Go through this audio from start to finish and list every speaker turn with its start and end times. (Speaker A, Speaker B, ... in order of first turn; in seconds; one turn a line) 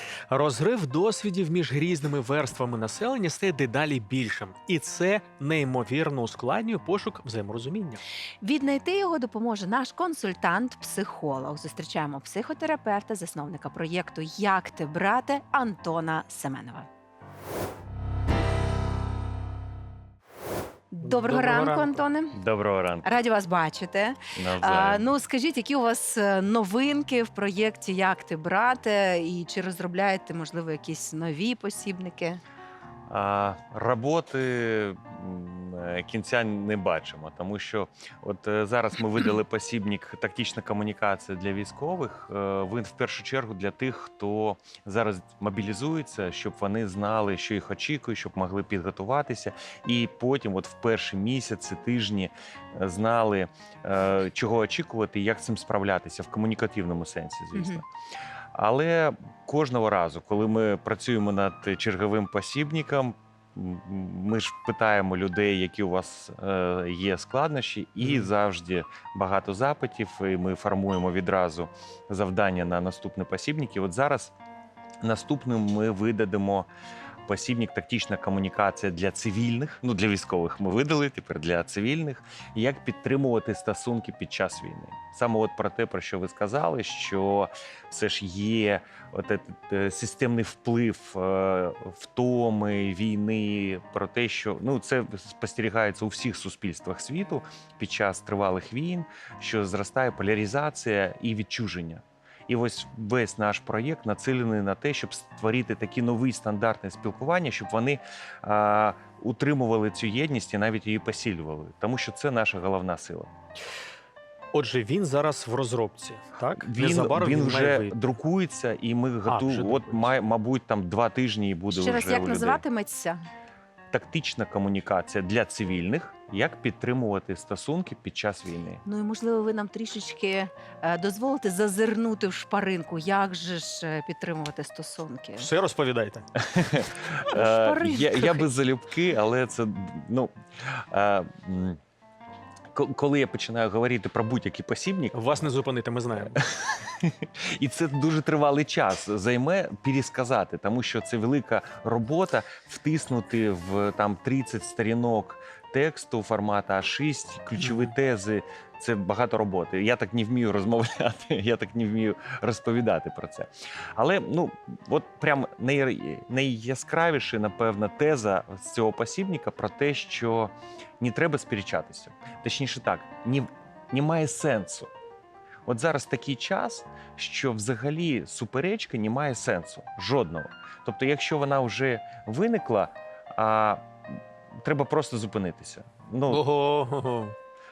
Speaker A: 0.3-8.0
Speaker B: 8.4-16.9
Speaker B: 20.9-22.4
Speaker A: 21.0-22.0
Speaker C: 22.3-23.1
Speaker B: 23.0-32.4
Speaker C: 24.4-25.1
Speaker C: 33.1-57.9
Speaker B: 57.5-57.8
Speaker C: 58.5-74.3
Speaker A: 68.0-68.3
Speaker C: 75.0-76.7
Speaker C: 77.3-113.3
Speaker A: 114.5-117.9
Speaker C: 116.5-122.6
Speaker A: 119.3-120.1
Speaker B: 121.7-123.2
Speaker C: 123.9-128.8
Speaker B: 128.8-135.5
Speaker A: 135.4-136.3
Speaker C: 136.4-141.8
Speaker B: 137.3-138.5
Speaker C: 142.7-145.3
Speaker A: 145.1-146.4
Speaker C: 146.2-174.9
Speaker A: 157.6-157.9
Speaker C: 175.7-183.9
Speaker C: 184.5-186.4
Speaker A: 186.3-187.3